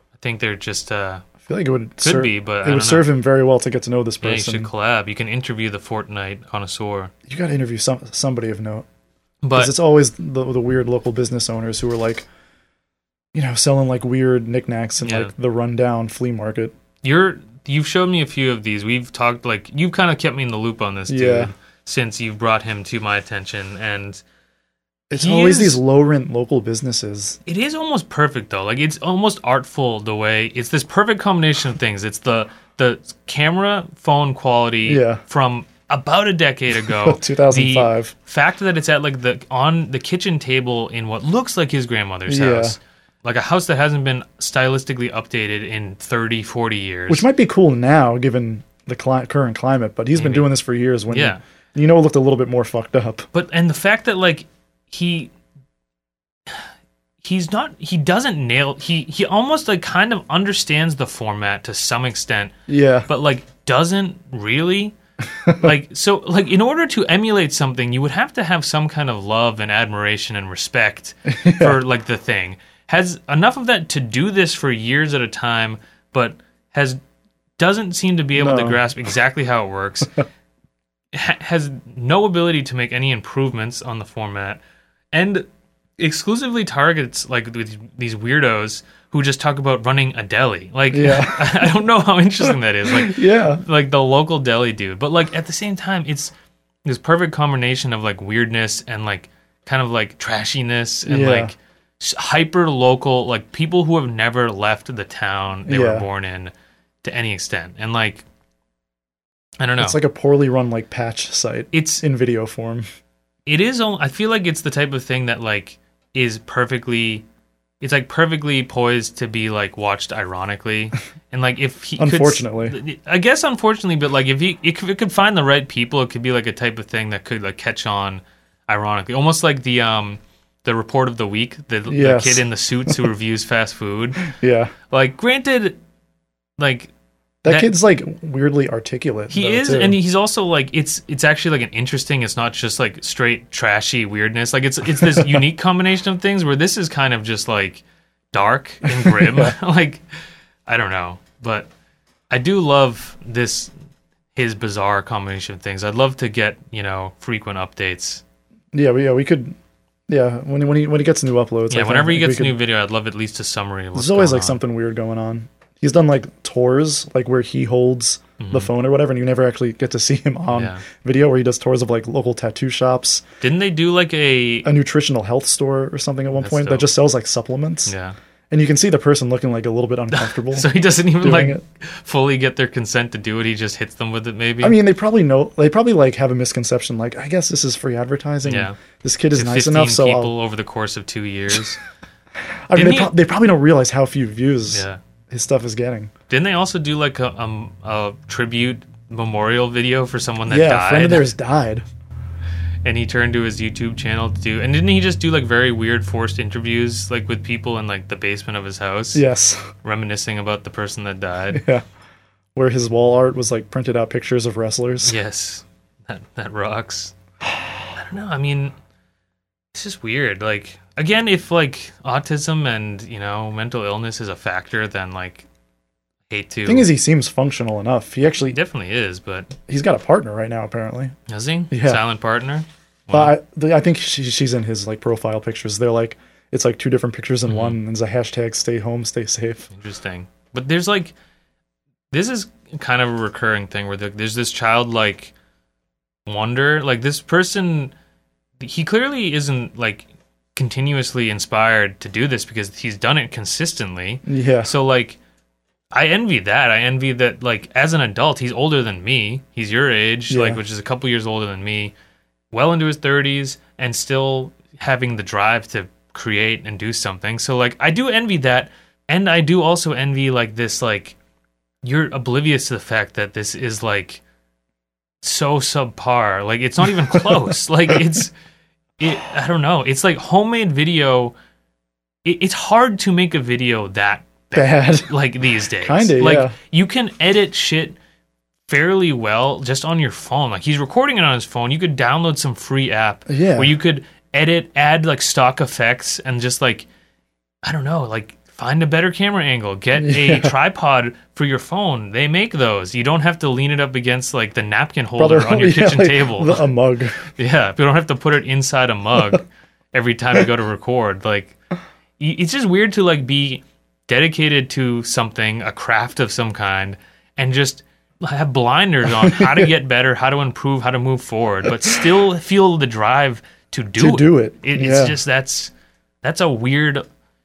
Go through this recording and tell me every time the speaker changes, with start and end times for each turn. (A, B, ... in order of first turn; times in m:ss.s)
0:00.2-0:01.3 A
0:01.4-0:04.7 B
0:02.0-0:03.1 A
0:04.2-0:07.1 A
0:07.3-0:08.8 B
0:09.4-0:09.7 A
0:09.5-0:12.3 B
0:13.3-0:16.7 B
0:15.0-0:15.3 A
0:17.0-0:24.2 A
0:21.1-0:21.5 B
0:25.1-0:27.4 B
0:25.1-0:25.8 A
0:27.4-0:47.2 A
0:34.8-0:35.2 B
0:36.8-0:38.1 B
0:42.3-0:42.8 B
0:47.1-0:53.3 B
0:50.1-0:50.5 A
0:51.1-0:51.4 A
0:53.3-0:55.3 A
0:57.2-1:02.5 A
1:02.7-1:03.1 B
1:03.1-1:05.0 A
1:05.4-1:05.7 B
1:05.5-1:17.0 A
1:11.3-1:11.8 B
1:17.6-1:20.2 A
1:18.4-1:18.8 B
1:21.1-1:24.6 A
1:25.1-1:25.5 A
1:26.0-1:36.3 A
1:30.9-1:31.8 B
1:32.4-1:33.6 B
1:36.8-1:46.5 A
1:41.0-1:41.5 B
1:45.7-1:46.1 B
1:47.0-1:48.2 A
1:49.6-1:50.0 A
1:49.8-1:52.8 B
1:51.7-1:52.0 A
1:53.4-1:57.2 A
1:57.8-2:14.3 A
2:02.0-2:02.8 B
2:11.9-2:13.0 B
2:14.2-2:14.7 B
2:14.9-2:15.8 A
2:16.6-2:16.9 A
2:17.4-2:20.0 B
2:17.5-2:17.7 A
2:19.3-2:30.0 A
2:25.0-2:25.4 B
2:28.8-2:29.6 B
2:30.6-2:31.7 A
2:32.3-2:33.7 A
2:34.3-2:38.2 A
2:38.7-2:39.6 B
2:40.1-2:42.6 B
2:41.7-2:44.6 A
2:43.9-2:53.2 B
2:48.4-2:48.7 A
2:50.5-2:50.8 A
2:53.4-2:54.7 A
2:54.6-2:57.9 B
2:56.3-2:56.9 A
2:57.8-2:58.2 A
2:58.5-3:00.7 B
3:00.1-3:04.8 A
3:01.2-3:01.6 B
3:04.6-3:10.3 B
3:08.4-3:08.8 A
3:09.3-3:11.8 A
3:12.7-3:16.1 B
3:12.7-3:13.1 A
3:14.7-3:15.0 A
3:16.3-3:21.3 A
3:20.5-3:21.8 B
3:22.8-3:29.2 A
3:29.1-3:29.7 B
3:29.8-3:31.6 A
3:31.5-3:31.8 B
3:32.5-3:35.2 B
3:35.0-3:37.2 A
3:37.9-3:38.7 A
3:39.7-3:45.4 A
3:46.3-3:46.9 A
3:46.6-3:48.6 B
3:48.5-3:49.5 A
3:49.7-3:51.1 B
3:51.3-3:53.3 A
3:51.7-3:52.0 B
3:53.1-3:59.7 B
3:57.4-3:57.8 A
3:59.7-4:01.1 A
4:02.1-4:05.3 A
4:06.2-4:07.9 A
4:08.6-4:15.2 A
4:14.2-4:14.7 B
4:15.9-4:21.9 A
4:20.3-4:20.6 B
4:22.5-4:31.2 A
4:31.8-4:34.2 A
4:35.2-4:38.3 A
4:37.1-4:38.0 B
4:39.0-4:41.3 A
4:42.2-4:48.0 A
4:44.5-4:45.1 B
4:45.8-4:46.5 B
4:48.7-4:56.8 A
4:53.3-4:53.7 B
4:57.6-5:06.7 A
5:00.0-5:00.5 B
5:05.2-5:07.3 B
5:07.3-5:11.6 A
5:12.2-5:25.7 A
5:19.0-5:19.7 B
5:21.8-5:22.0 B
5:24.0-5:25.2 B
5:26.2-5:27.0 A